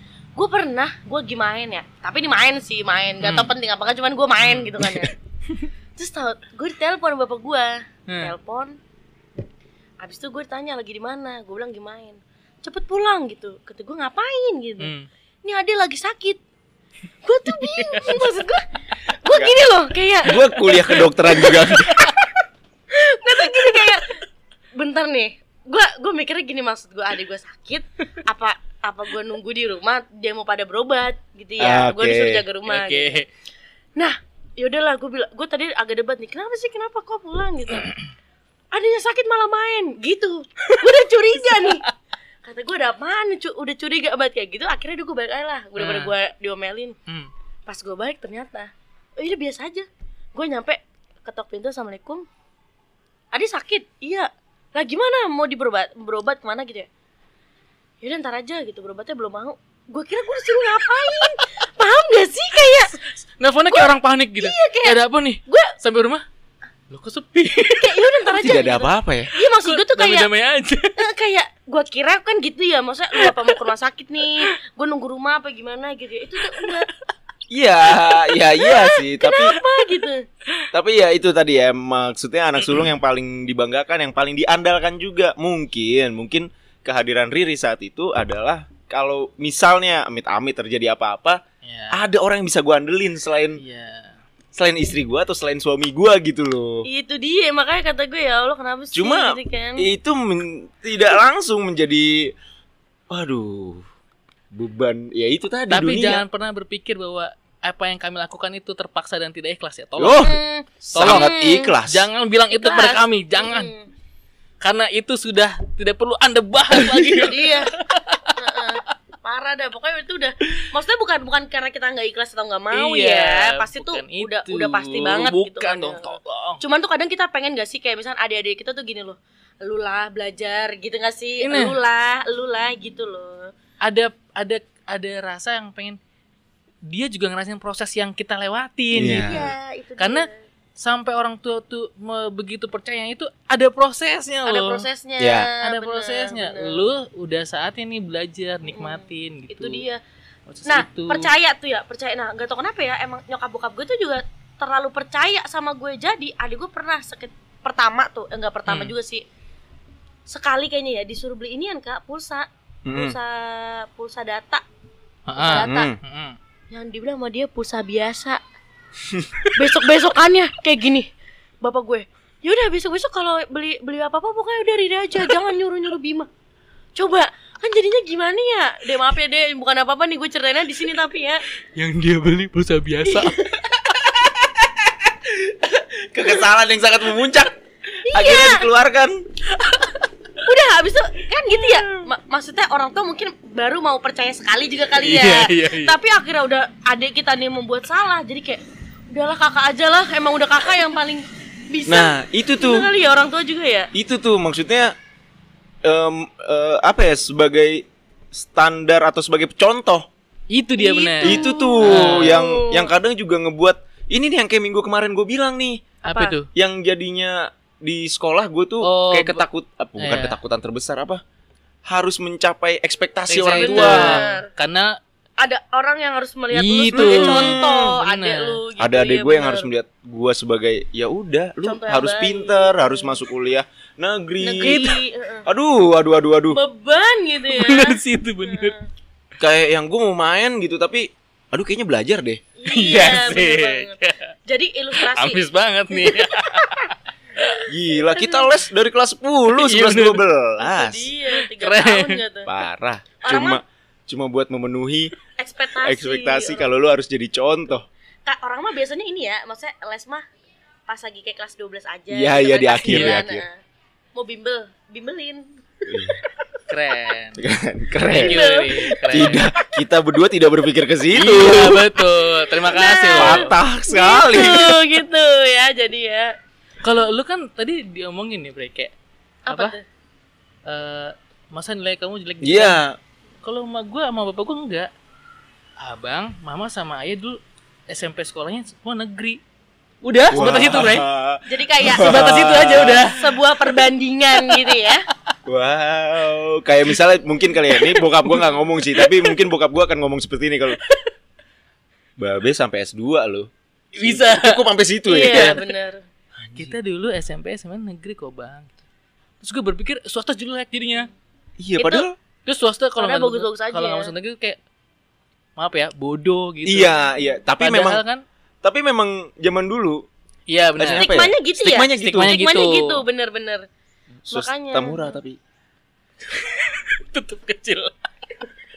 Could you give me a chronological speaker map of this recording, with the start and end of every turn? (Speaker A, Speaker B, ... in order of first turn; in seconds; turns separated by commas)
Speaker A: 0.3-5.2, Speaker B: 3.2-3.5, Speaker B: 4.4-4.9, Speaker A: 6.0-8.8, Speaker B: 8.1-8.3, Speaker A: 10.0-14.9, Speaker B: 14.8-15.1, Speaker A: 15.4-16.4, Speaker A: 17.2-22.2, Speaker B: 17.6-18.2, Speaker C: 20.2-22.1, Speaker A: 22.9-24.1, Speaker A: 24.7-33.1, Speaker C: 31.6-32.4, Speaker B: 32.7-33.3, Speaker A: 34.0-37.9, Speaker A: 38.7-41.8, Speaker B: 40.7-41.8, Speaker A: 42.4-47.0, Speaker B: 45.8-46.1, Speaker A: 47.6-52.2, Speaker A: 53.3-56.9, Speaker A: 58.0-63.0, Speaker B: 63.2-66.2, Speaker A: 63.7-65.7, Speaker B: 66.9-68.1, Speaker A: 67.8-70.3, Speaker C: 68.4-69.3, Speaker B: 69.5-71.0, Speaker A: 71.0-76.9, Speaker B: 73.2-73.5, Speaker C: 77.5-79.6, Speaker A: 78.6-80.3, Speaker C: 80.7-91.4, Speaker B: 91.6-92.0, Speaker C: 91.9-93.6, Speaker B: 93.6-94.2, Speaker C: 94.5-96.8, Speaker A: 96.8-99.8, Speaker C: 98.9-102.3, Speaker C: 103.1-103.8, Speaker C: 104.5-106.2, Speaker B: 105.7-110.3, Speaker C: 110.0-112.1, Speaker A: 110.2-111.7, Speaker B: 110.9-113.7, Speaker A: 112.5-113.9, Speaker B: 114.6-118.7, Speaker A: 116.8-117.7, Speaker A: 118.3-133.5, Speaker B: 122.7-126.6, Speaker B: 131.4-131.8, Speaker B: 133.8-136.0, Speaker B: 136.9-139.4, Speaker C: 138.9-139.5, Speaker A: 139.0-140.4, Speaker B: 140.0-144.8, Speaker A: 144.4-146.8, Speaker C: 145.2-145.5, Speaker B: 145.6-149.8, Speaker A: 148.7-150.0, Speaker B: 150.5-151.3, Speaker A: 150.7-159.2, Speaker B: 158.7-158.9, Speaker A: 160.3-164.6, Speaker C: 162.8-163.2, Speaker B: 165.3-166.4, Speaker A: 165.4-165.9, Speaker C: 165.4-166.0, Speaker A: 166.7-168.4, Speaker A: 169.6-171.1, Speaker A: 171.6-176.3, Speaker A: 176.9-181.4, Speaker B: 181.8-183.4, Speaker C: 183.6-187.5, Speaker A: 188.1-188.7, Speaker C: 188.1-189.2, Speaker A: 190.4-203.9, Speaker B: 195.0-195.9, Speaker C: 201.9-202.9, Speaker C: 203.9-204.9, Speaker C: 205.8-210.1, Speaker B: 210.5-212.4, Speaker A: 210.8-212.9, Speaker C: 211.2-215.9, Speaker B: 216.0-216.5, Speaker A: 216.0-216.4, Speaker C: 216.5-221.2, Speaker B: 218.8-219.4, Speaker B: 220.0-220.4, Speaker C: 221.8-224.2, Speaker B: 223.3-225.0, Speaker A: 223.5-224.5, Speaker A: 225.4-229.7, Speaker B: 226.5-228.6, Speaker C: 226.9-228.0, Speaker C: 228.8-234.9, Speaker A: 231.6-233.2, Speaker A: 234.4-235.5, Speaker B: 234.6-235.0, Speaker C: 235.5-236.6, Speaker A: 236.5-238.8, Speaker B: 237.5-238.7, Speaker C: 239.4-242.4, Speaker A: 242.6-246.4, Speaker B: 242.7-244.2, Speaker B: 244.9-247.6, Speaker C: 247.7-251.1, Speaker A: 248.2-248.5, Speaker B: 249.5-250.2, Speaker A: 250.6-252.5, Speaker B: 251.3-252.2, Speaker C: 252.4-255.1, Speaker A: 253.2-253.6, Speaker A: 255.4-256.7, Speaker C: 255.8-257.9, Speaker A: 258.2-260.2, Speaker A: 260.9-263.6, Speaker C: 262.1-263.4, Speaker B: 262.8-263.2, Speaker A: 264.1-265.5, Speaker C: 265.9-266.2, Speaker B: 266.7-267.4, Speaker C: 267.4-268.4, Speaker B: 268.0-269.5, Speaker A: 268.1-269.3, Speaker C: 269.1-271.9, Speaker B: 271.1-273.6, Speaker A: 272.6-276.3, Speaker C: 273.1-274.8, Speaker B: 276.8-278.9, Speaker A: 279.5-279.8, Speaker B: 279.5-279.7, Speaker B: 280.6-282.8, Speaker C: 282.4-283.0, Speaker B: 283.4-284.9, Speaker B: 285.8-289.4, Speaker B: 290.0-291.1, Speaker C: 290.3-293.1, Speaker A: 291.4-295.0, Speaker B: 291.8-293.6, Speaker B: 294.4-294.7, Speaker C: 295.4-300.8, Speaker B: 297.7-299.4, Speaker C: 302.2-305.6, Speaker B: 303.9-304.7, Speaker A: 305.1-306.0, Speaker B: 305.3-305.7, Speaker C: 306.4-306.8, Speaker B: 306.5-308.8, Speaker B: 309.4-311.1, Speaker C: 311.6-312.2, Speaker A: 311.8-312.1, Speaker B: 312.4-314.6, Speaker A: 313.0-314.1, Speaker B: 315.6-318.2, Speaker C: 316.6-318.0, Speaker C: 318.6-320.1, Speaker B: 320.5-321.1, Speaker C: 320.8-322.3, Speaker A: 320.9-323.6, Speaker B: 322.0-323.0, Speaker C: 324.2-325.4, Speaker A: 324.3-325.1, Speaker B: 326.4-327.9